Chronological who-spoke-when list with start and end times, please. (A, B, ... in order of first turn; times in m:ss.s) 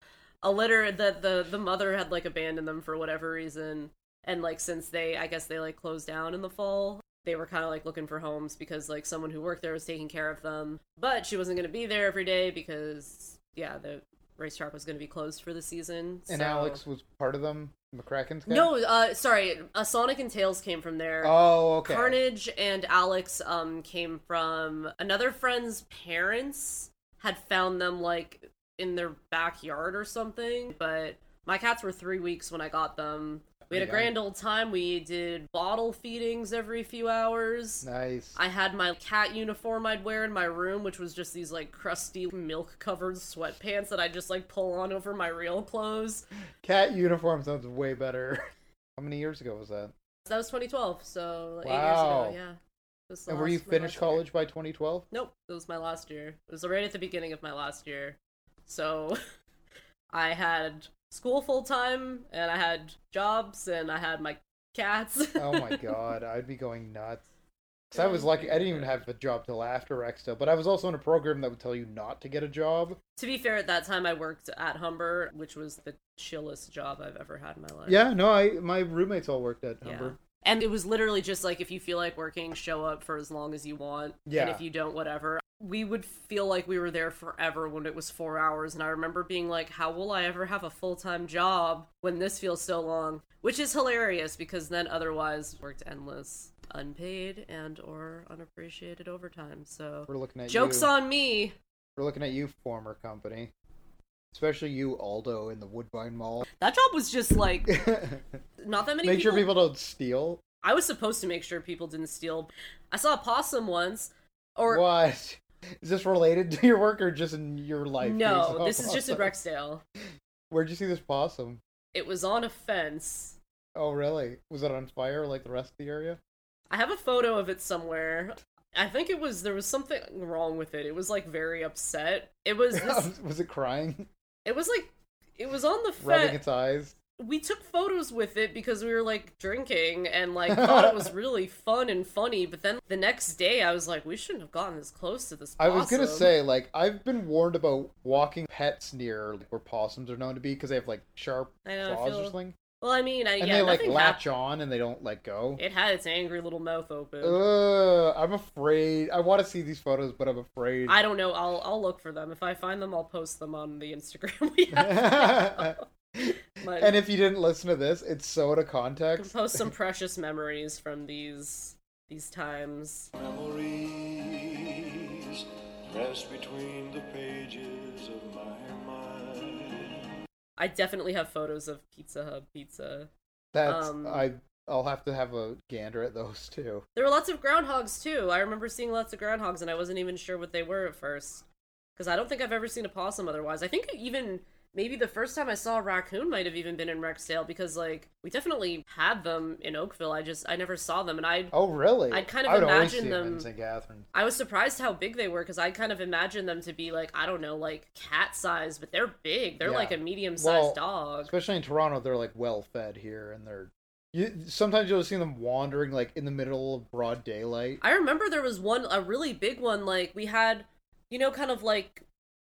0:00.4-0:16.8 A
0:16.3-0:18.7 B
0:18.5-0:46.3 A
0:21.2-0:22.2 B
0:33.7-0:34.1 B
0:37.8-0:38.4 B
0:46.6-0:48.4 B
0:49.0-0:49.9 B
0:50.3-0:52.6 A
0:51.6-0:52.4 B
0:53.1-0:54.3 A
0:53.3-0:55.1 B
0:55.1-0:59.2 A
1:00.1-1:06.0 A
1:05.4-1:07.2 B
1:07.9-1:13.0 B
1:08.0-1:09.0 A
1:13.2-1:18.0 A
1:17.9-1:20.2 B
1:19.8-1:41.6 A
1:24.3-1:24.6 B
1:40.1-1:40.9 B
1:42.0-1:43.5 B
1:44.3-1:46.5 B
1:46.6-1:47.8 A
1:47.7-1:48.4 B
1:48.6-1:49.5 A
1:49.0-1:50.4 B
1:50.6-1:54.9 A
1:54.7-1:59.4 B
1:58.0-1:59.8 A
2:00.5-2:01.6 B
2:01.9-2:03.4 A
2:03.8-2:06.2 B
2:06.7-2:13.1 A
2:12.7-2:14.1 B
2:14.4-2:16.4 A
2:16.0-2:17.0 B
2:17.2-2:26.3 A
2:20.5-2:21.1 B
2:25.6-2:32.6 B
2:31.6-2:34.2 A
2:33.4-2:35.6 B
2:35.6-2:37.4 A
2:37.2-2:41.0 B
2:40.9-2:45.8 A
2:44.7-2:49.7 B
2:46.6-2:47.0 A
2:49.2-2:53.1 A
2:53.3-2:54.0 C
2:56.0-2:59.4 C
3:00.6-3:03.1 A
3:03.5-3:06.8 B
3:03.6-3:04.3 A
3:07.0-3:11.4 A
3:12.0-3:21.5 A
3:21.5-3:24.1 B
3:22.1-3:23.5 A
3:24.1-3:31.3 A
3:29.6-3:37.8 B
3:37.8-3:42.0 A